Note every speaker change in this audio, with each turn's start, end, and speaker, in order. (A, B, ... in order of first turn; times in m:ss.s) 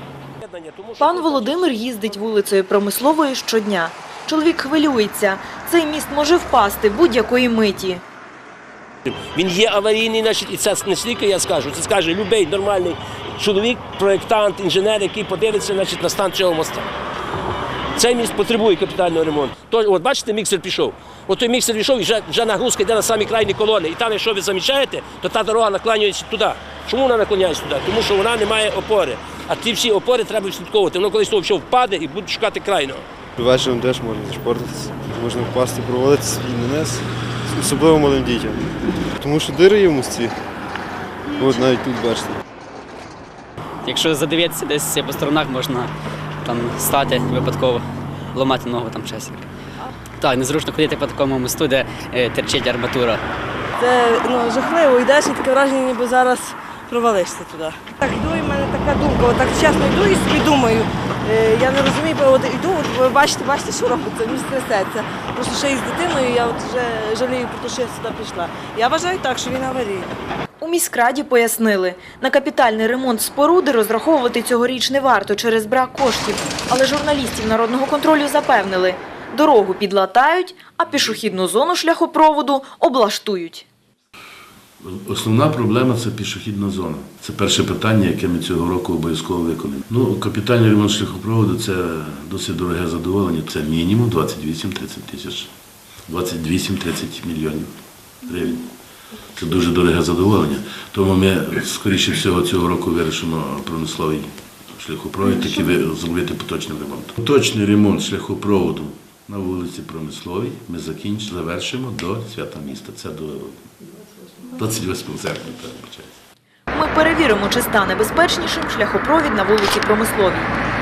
0:00.4-0:01.8 A
0:01.0-0:08.0 B
0:09.0-0:16.9 A
0:18.0-0:33.0 A
0:33.4-0:38.6 C
0:39.2-0:40.3 C
0:41.3-0:42.4 C
0:43.8-0:45.9 D
0:46.4-0:49.4 D
0:50.2-0:53.2 D
0:53.8-1:10.1 E
1:10.6-1:23.6 B
1:24.8-1:35.5 F
1:36.1-1:37.7 F
1:38.2-1:38.7 F
1:39.3-1:53.7 F
1:54.4-1:56.1 F
1:56.7-2:00.5 B